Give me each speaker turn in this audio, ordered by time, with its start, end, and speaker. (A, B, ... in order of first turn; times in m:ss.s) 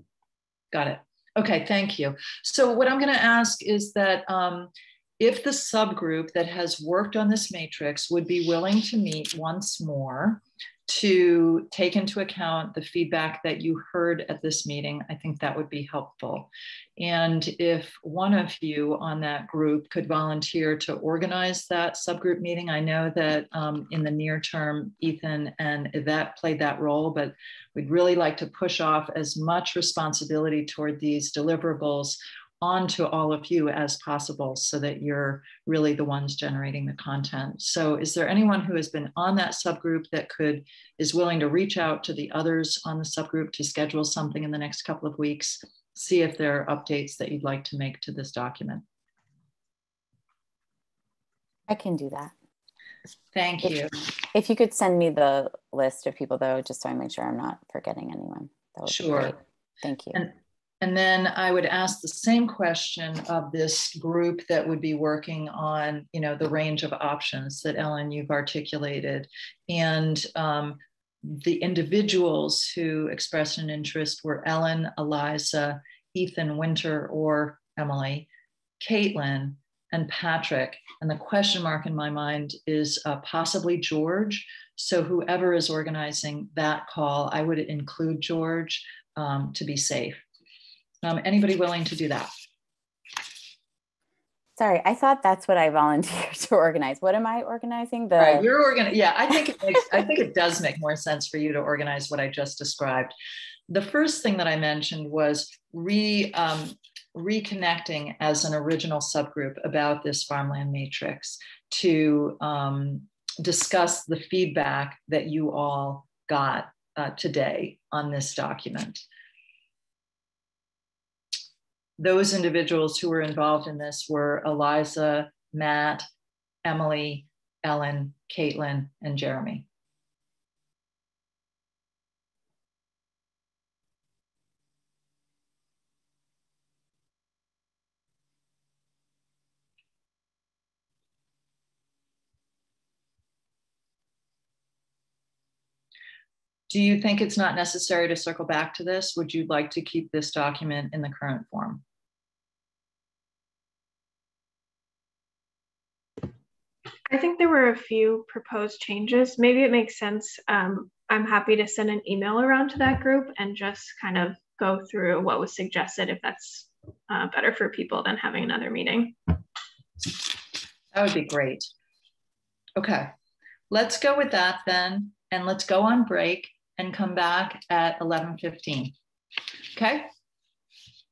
0:00.7-0:48.8 A
0:51.7-0:52.3 B
0:53.3-0:54.0 A
0:54.3-1:00.2 B
0:58.9-0:59.4 A
1:00.1-1:18.3 A
1:18.8-1:30.2 A
1:31.0-1:32.3 A
1:34.6-1:38.5 B
1:38.2-1:43.1 A
1:43.7-1:59.0 A
2:02.0-2:06.1 A
2:06.6-2:09.7 A
2:26.7-2:31.8 A
2:37.1-2:49.2 C
2:50.9-2:51.7 A
2:52.8-2:53.1 A
2:53.7-2:58.9 A
2:59.7-3:00.1 A